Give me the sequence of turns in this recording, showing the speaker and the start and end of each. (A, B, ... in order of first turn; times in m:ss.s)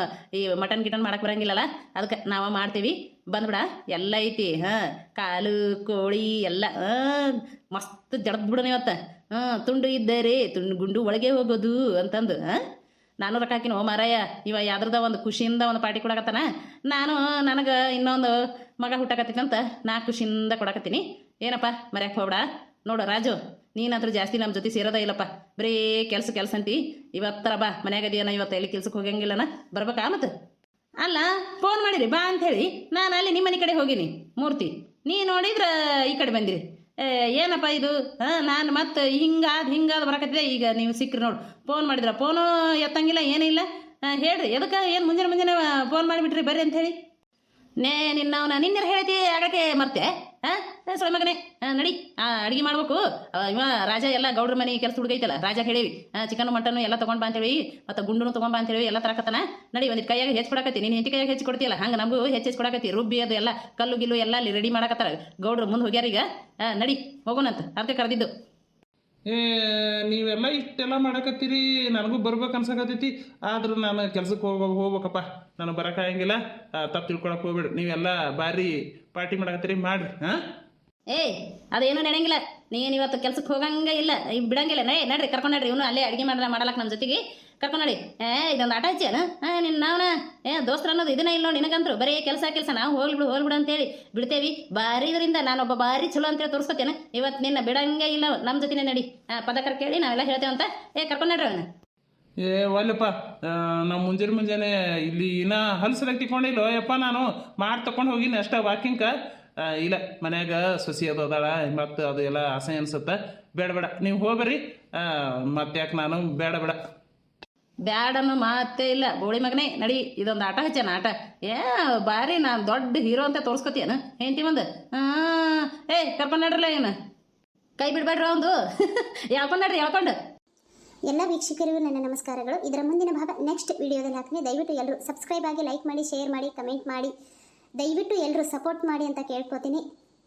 0:00.4-0:12.6 A
0:13.2-0:30.3 A
0:31.0-0:46.9 A
0:47.8-1:08.3 A
1:09.3-1:20.4 B
1:21.1-1:41.6 A
1:42.4-1:56.8 B
1:57.9-2:06.9 A
2:07.8-2:08.5 A
2:09.3-2:10.2 A
2:11.1-2:17.1 C
2:17.8-2:19.8 C